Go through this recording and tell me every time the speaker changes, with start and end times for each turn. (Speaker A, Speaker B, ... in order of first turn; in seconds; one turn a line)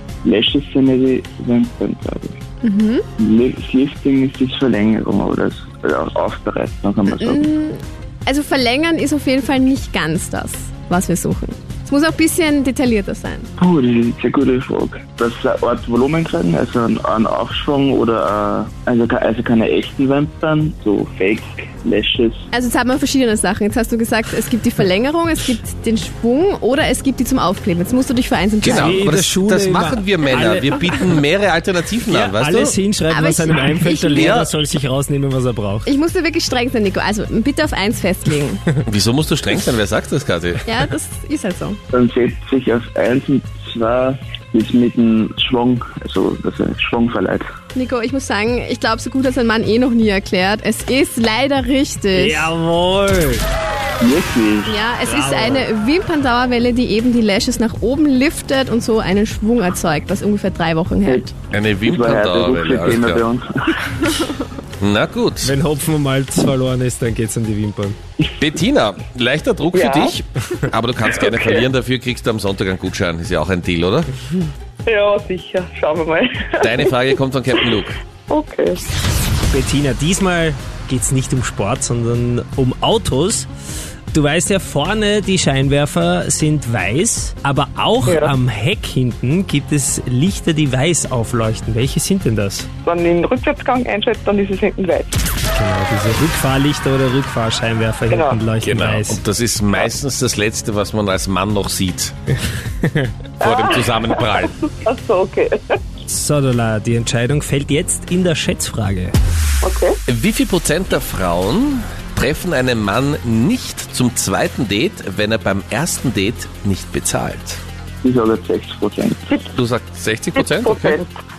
Speaker A: 0.2-2.4
Speaker B: 2.6-3.0
Speaker A: 3.2-7.5
Speaker B: 7.2-13.5
Speaker A: 13.6-22.4
Speaker B: 22.5-28.7
Speaker C: 28.6-32.8
Speaker D: 28.6-31.2
Speaker D: 32.1-35.9
Speaker B: 33.1-34.4
Speaker C: 34.1-34.5
Speaker B: 35.9-38.7
Speaker C: 38.8-40.8
Speaker B: 40.7-41.8
Speaker A: 41.9-47.5
Speaker B: 47.7-52.5
Speaker D: 52.1-53.4
Speaker A: 54.0-54.8
Speaker B: 54.6-61.3
Speaker D: 55.0-55.7
Speaker C: 61.4-63.2
Speaker A: 61.9-64.1
Speaker C: 64.8-65.5
Speaker D: 65.4-68.0
Speaker C: 68.4-74.1
Speaker E: 69.7-70.2
Speaker E: 71.2-71.6
Speaker E: 74.8-77.0
Speaker C: 76.6-78.0
Speaker E: 78.3-78.8
Speaker D: 79.5-83.5
Speaker D: 84.1-92.7
Speaker E: 88.0-88.3
Speaker E: 92.8-95.2
Speaker D: 95.5-99.2
Speaker E: 98.1-98.4
Speaker C: 98.6-102.1
Speaker C: 103.4-104.6
Speaker E: 103.4-105.8
Speaker D: 106.1-109.2
Speaker E: 109.6-110.0
Speaker C: 110.1-117.6
Speaker A: 118.0-119.3
Speaker C: 119.5-121.0
Speaker E: 120.3-121.1